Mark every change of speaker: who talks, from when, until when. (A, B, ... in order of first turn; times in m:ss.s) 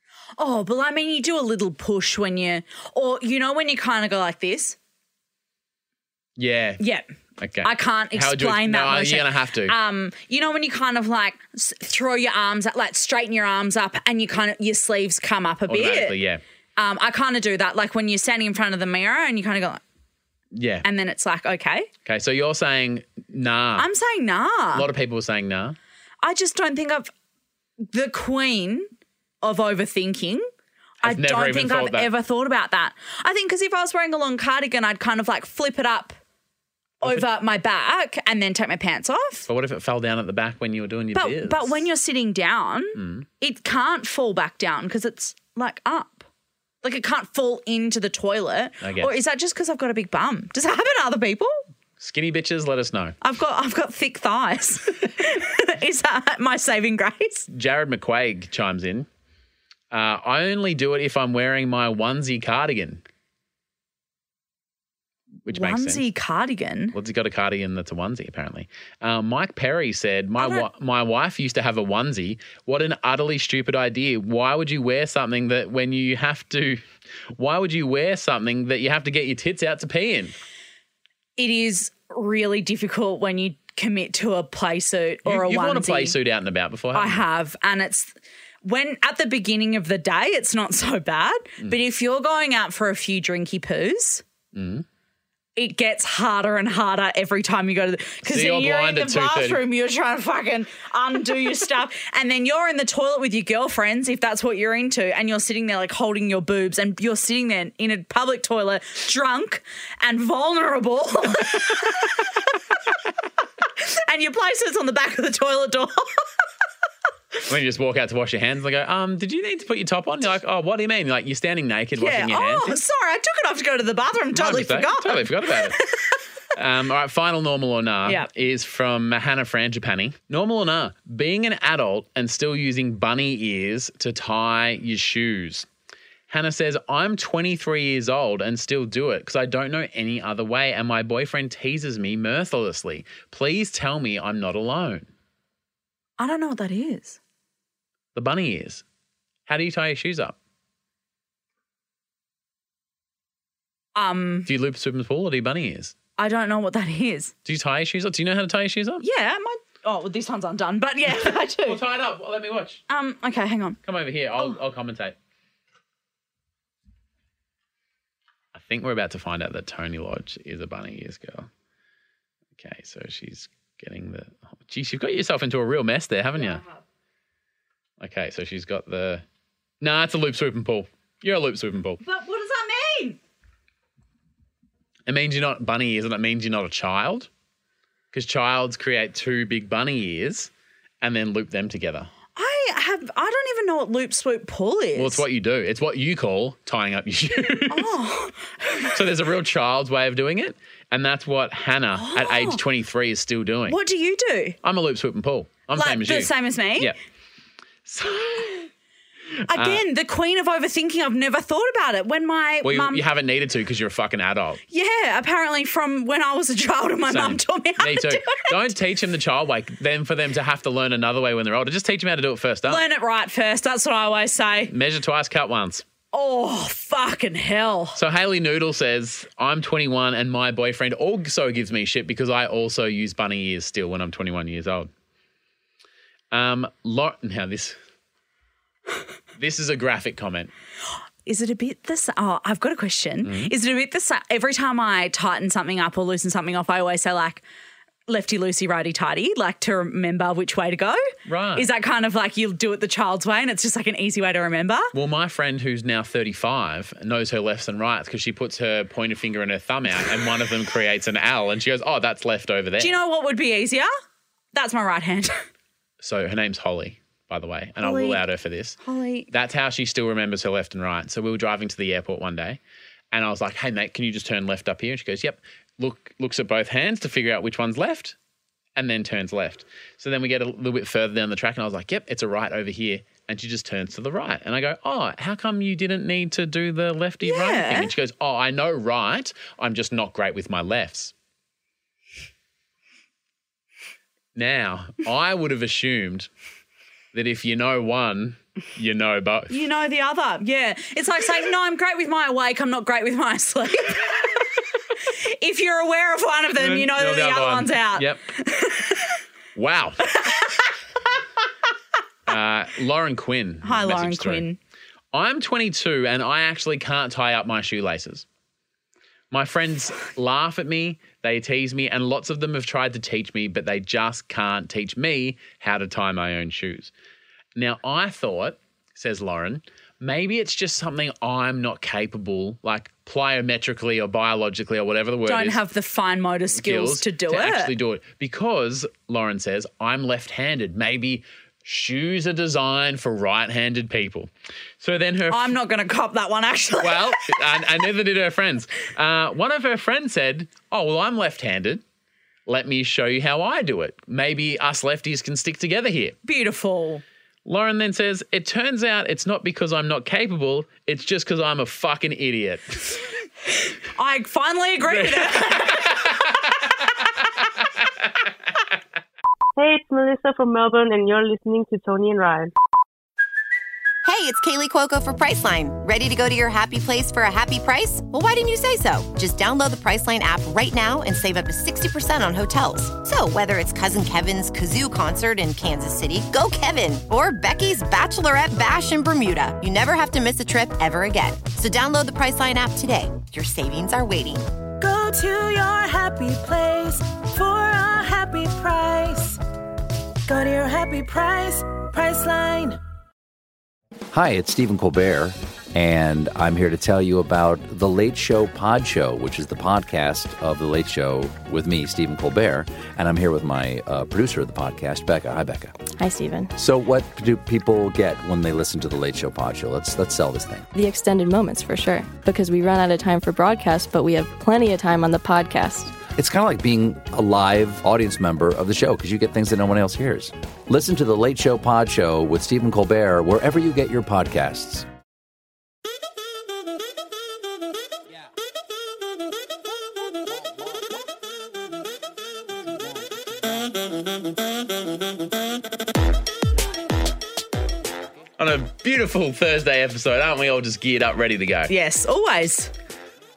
0:00.4-0:04.8 A
0:06.4-0:06.8 B
0:06.8-0:07.1 A
0:07.4-0:09.8 B
0:07.6-0:16.2 A
0:15.7-0:16.4 B
0:16.8-0:19.8 A
0:20.5-0:20.8 B
0:20.8-0:21.9 A
0:22.0-0:23.9 B
0:23.8-0:24.9 A
0:24.7-0:25.8 B
0:26.2-0:27.1 A
0:27.9-0:28.9 A
0:29.4-0:30.5 A
0:31.0-0:32.1 B
0:31.0-0:36.2 A
0:37.0-0:39.5 A
0:39.5-0:41.9 B
0:41.1-0:46.3 A
0:43.0-0:43.3 B
0:46.8-0:51.6 A
0:48.8-0:49.2 B
0:52.0-0:53.2 B
0:53.2-0:57.5 A
0:57.5-0:59.1 B
0:59.9-1:03.0 B
1:05.5-1:06.0 B
1:05.5-1:07.0 A
1:06.9-1:16.8 B
1:10.4-1:10.6 A
1:17.3-1:20.4 B
1:21.4-1:26.2 A
1:25.2-1:27.2 B
1:26.9-1:34.2 A
1:34.5-1:34.8 B
1:35.6-1:52.3 A
1:38.2-1:39.6 B
1:53.8-1:56.1 A
1:57.5-2:02.8 B
2:02.0-2:06.1 A
2:04.3-2:05.8 B
2:06.6-2:15.7 B
2:16.3-2:25.1 B
2:26.2-2:27.2 A
2:28.1-2:28.8 B
2:29.5-2:30.4 B
2:34.0-2:34.5 A
2:34.5-2:35.9 B
2:36.2-2:37.3 A
2:37.4-2:39.0 B
2:39.0-2:41.8 A
2:41.1-2:42.8 B
2:42.9-2:43.8 A
2:43.8-2:45.2 B
2:48.5-2:51.5 B
2:52.6-2:56.6 B
2:56.4-2:56.8 A
2:58.0-2:59.2 B
2:59.8-3:02.0 B
3:02.0-3:03.2 A
3:05.1-3:07.3 B
3:08.1-3:10.5 B
3:11.0-3:12.1 B
3:12.4-3:15.2 A
3:15.0-3:17.9 B
3:17.7-3:18.9 A
3:18.9-3:23.8 B
3:22.0-3:22.6 A
3:23.7-3:24.6 A
3:24.6-3:27.0 B
3:25.8-3:26.9 A
3:27.9-3:28.7 B
3:29.5-3:33.0 A
3:29.5-3:29.8 B
3:32.6-3:34.6 B
3:34.7-3:38.7 A
3:37.1-3:42.8 B
3:42.7-3:44.7 A
3:44.7-3:45.8 B
3:46.1-3:48.0 A
3:48.0-3:54.9 B
3:56.3-3:57.8 B
3:59.4-4:00.5 B
4:01.2-4:07.4 A
4:03.2-4:03.5 B
4:08.1-4:11.0 A
4:11.2-4:11.7 B
4:11.6-4:14.9 A
4:14.9-4:23.0 B
4:22.8-4:23.9 A
4:24.5-4:25.4 A
4:26.0-4:28.8 B
4:27.8-4:28.2 A
4:28.8-4:29.3 A
4:29.3-4:32.6 B
4:33.1-4:38.2 B
4:38.8-4:51.1 B
4:47.2-4:47.9 A
4:54.4-4:56.3 B
4:57.1-4:59.5 B
4:59.5-5:04.4 A
5:05.1-5:09.2 A
5:06.6-5:08.2 B
5:09.6-5:10.0 B
5:12.3-5:14.4 B
5:13.6-5:14.6 A
5:15.1-5:18.2 B
5:19.3-5:26.9 B
5:27.6-5:35.6 B
5:35.2-5:37.7 A
5:36.6-5:45.6 B
5:45.3-5:47.4 A
5:46.8-5:51.8 B
5:52.5-5:56.2 B
5:56.2-5:57.0 A
5:57.5-6:03.0 B
6:04.0-6:06.0 A
6:04.9-6:06.4 B
6:09.6-6:12.5 C
6:14.0-6:34.5 D
6:34.8-6:39.4 E
6:40.2-6:42.8 E
6:44.1-6:55.8 F
6:56.0-6:56.5 G
6:56.6-7:00.7 F
7:00.7-7:06.0 G
7:06.1-7:14.9 F
7:28.4-7:31.7 B
7:31.7-7:32.7 A